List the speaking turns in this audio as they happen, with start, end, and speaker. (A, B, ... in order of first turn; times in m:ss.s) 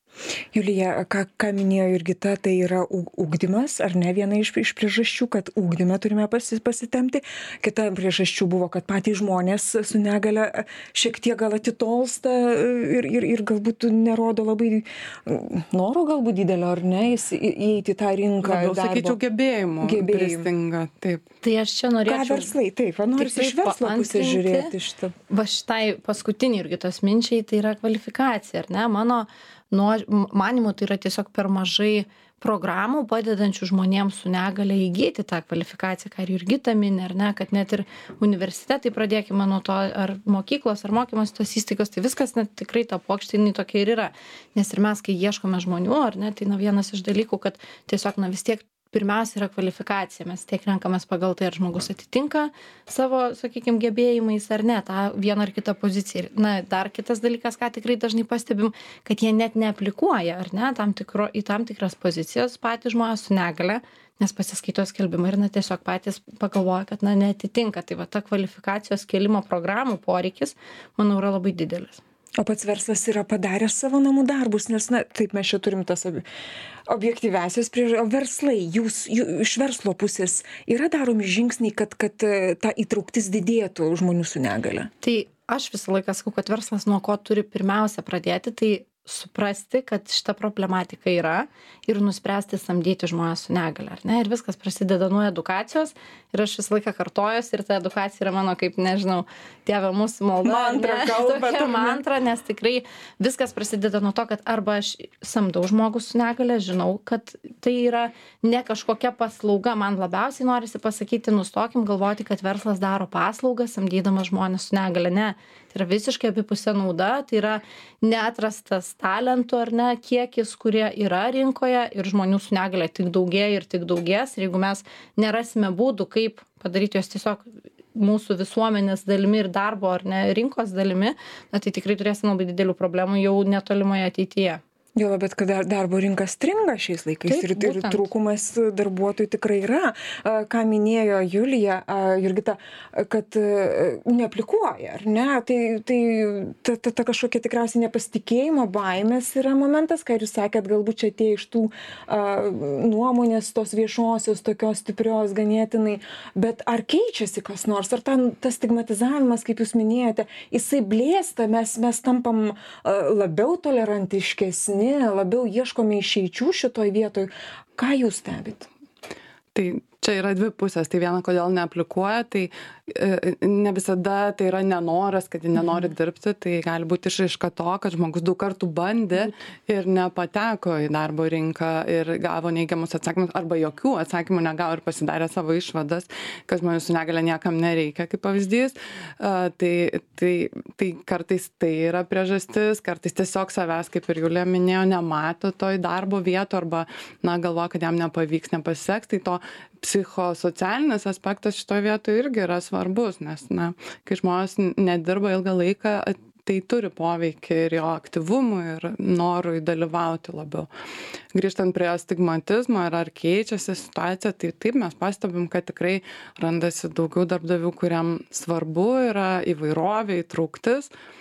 0:00.5-0:19.2 A
0:18.4-0:21.2 B
0:19.8-0:20.5 A
0:21.4-0:22.5 C
0:22.1-0:25.1 A
0:23.2-0:24.7 C
0:25.3-1:12.0 C
1:12.4-1:16.2 A
1:16.9-1:24.9 A
1:25.0-2:14.6 C
1:40.4-1:42.0 A
2:15.0-2:48.7 A
2:17.2-2:18.1 C
2:49.5-3:30.7 B
3:31.3-3:40.9 B